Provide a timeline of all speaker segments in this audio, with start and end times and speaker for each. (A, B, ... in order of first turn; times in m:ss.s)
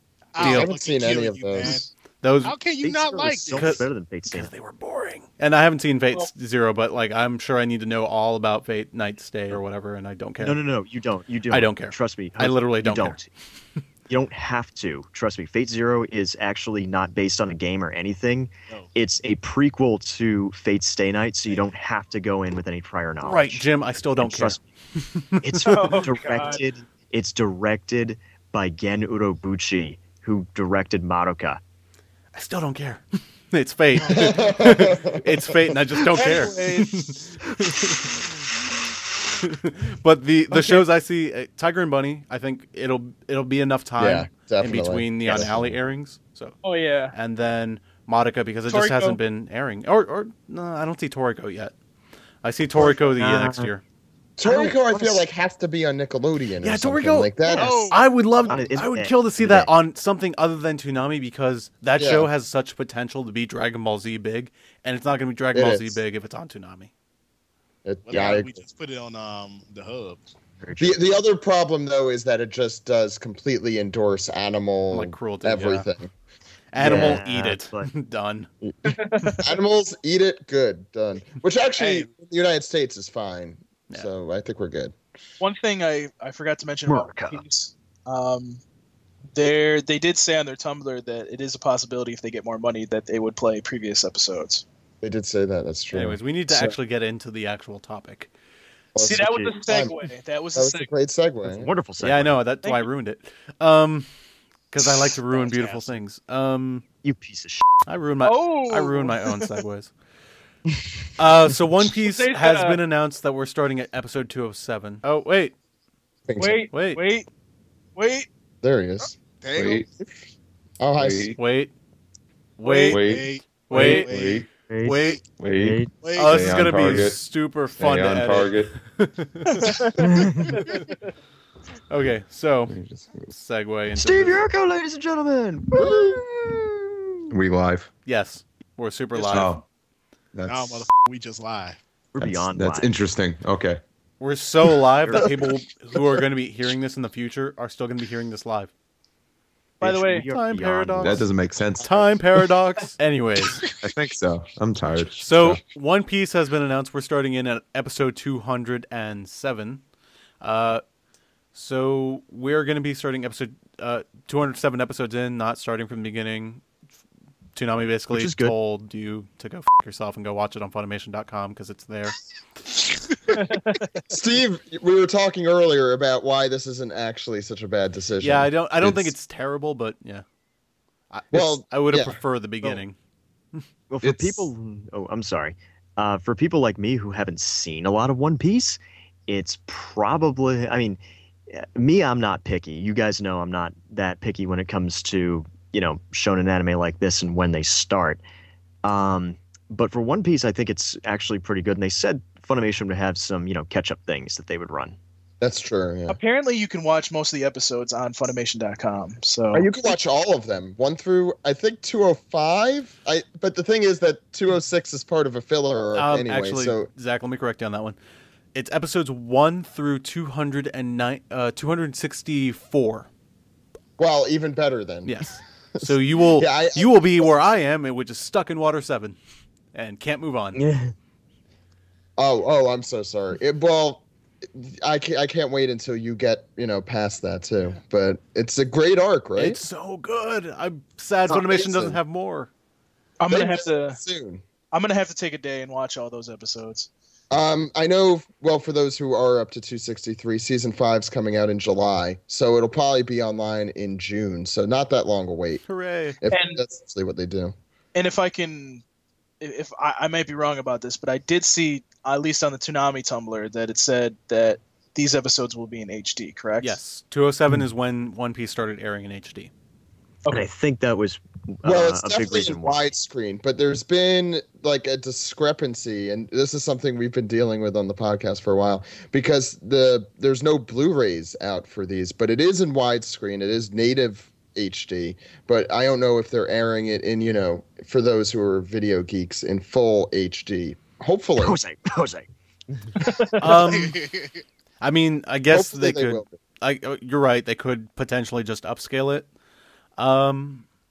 0:00.3-0:01.9 A
0:00.4-0:00.7 B
0:00.4-0:01.9 C
0:02.2-0:02.6 B
0:02.4-0:03.8 A
0:02.8-0:04.5 D
0:03.5-0:10.6 B
0:10.4-0:13.3 D
0:11.5-0:13.2 B
0:14.1-0:23.7 D
0:23.2-0:26.0 B
0:24.2-0:24.6 D
0:25.4-0:31.6 D
0:25.6-0:26.6 E
0:32.3-0:38.3 B
0:34.1-0:35.2 C
0:36.1-0:37.0 E
0:39.4-0:46.6 B
0:44.0-0:45.8 C
0:46.6-0:47.1 E
0:47.1-0:51.7 B
0:48.7-0:49.2 E
0:52.4-0:53.8 B
0:52.8-0:53.7 D
0:54.4-0:57.9 C
0:54.4-0:55.2 D
0:56.6-1:06.9 B
0:57.5-0:58.0 A
0:58.5-0:59.7 D
1:02.0-1:02.3 C
1:05.6-1:06.0 C
1:07.8-1:08.6 C
1:08.1-1:10.2 A
1:10.6-1:11.0 D
1:10.8-1:16.1 C
1:14.9-1:15.9 B
1:16.7-1:18.5 B
1:16.8-1:17.2 C
1:16.8-1:17.9 D
1:18.6-1:25.0 C
1:19.0-1:19.4 E
1:21.8-1:22.1 A
1:25.4-1:28.6 E
1:26.9-1:27.4 D
1:29.4-1:34.6 E
1:35.0-1:36.8 C
1:35.9-1:38.3 B
1:39.0-1:39.9 C
1:39.0-1:40.9 E
1:40.6-1:41.7 C
1:41.4-1:42.4 D
1:42.0-1:44.1 B
1:44.7-1:46.8 B
1:47.0-1:47.7 D
1:47.9-1:49.9 B
1:48.2-1:49.3 E
1:51.2-1:55.6 B
1:52.0-1:52.8 E
1:56.3-1:56.6 C
1:56.4-1:57.3 E
1:56.7-1:57.0 B
1:58.0-1:58.3 E
1:58.6-1:59.1 C
1:59.4-1:59.8 A
1:59.5-1:59.9 F
2:00.8-2:01.3 C
2:01.0-2:01.4 F
2:01.4-2:01.7 B
2:02.6-2:03.0 B
2:02.6-2:03.0 E
2:02.9-2:05.2 A
2:02.9-2:04.5 F
2:03.5-2:05.2 B
2:04.7-2:05.0 D
2:05.4-2:07.2 F
2:05.6-2:05.9 D
2:05.9-2:07.1 A
2:06.1-2:09.7 B
2:07.7-2:08.8 F
2:09.5-2:10.9 E
2:09.6-2:10.8 A
2:10.0-2:10.5 D
2:11.9-2:12.8 B
2:12.7-2:13.3 F
2:13.3-2:14.4 B
2:13.9-2:17.0 D
2:15.8-2:16.2 C
2:17.3-2:17.9 F
2:18.1-2:19.6 B
2:19.2-2:19.4 A
2:19.3-2:19.6 F
2:20.3-2:20.9 F
2:20.5-2:21.8 A
2:22.1-2:23.0 D
2:22.2-2:23.8 F
2:24.2-2:28.7 B
2:29.8-2:30.3 E
2:29.8-2:31.3 D
2:30.3-2:31.3 B
2:31.0-2:32.1 F
2:31.8-2:33.6 B
2:33.8-2:35.6 F
2:35.2-2:39.8 B
2:40.4-2:40.8 B
2:41.5-2:46.6 B
2:47.6-2:52.2 B
2:48.1-2:48.6 D
2:53.3-2:53.9 E
2:54.1-2:59.1 C
2:58.2-3:00.2 B
3:01.1-3:03.0 B
3:01.3-3:02.2 C
3:03.9-3:18.2 D
3:04.0-3:04.5 F
3:18.8-3:25.0 D
3:25.4-3:26.2 C
3:26.1-3:29.7 E
3:29.5-3:36.9 C
3:36.0-3:38.0 B
3:38.5-3:43.1 B
3:44.0-3:47.4 C
3:45.0-3:49.2 B
3:49.7-3:50.6 B
3:50.5-3:50.9 D
3:52.2-3:59.6 C
3:59.4-4:02.5 B
4:01.3-4:02.0 C
4:03.2-4:04.0 E
4:03.3-4:04.4 C
4:04.7-4:06.9 E
4:07.3-4:15.6 C
4:15.7-4:16.2 B
4:16.2-4:17.6 C
4:16.3-4:16.6 E
4:18.0-4:18.8 E
4:19.4-4:26.8 E
4:26.6-4:29.5 B
4:30.3-4:32.9 D
4:31.6-4:51.6 C
4:51.4-4:52.3 D
4:53.0-4:53.3 E
4:53.4-4:54.0 B
4:53.4-4:54.4 A
4:54.8-4:59.3 B
4:55.5-4:56.4 C
5:00.0-5:00.6 B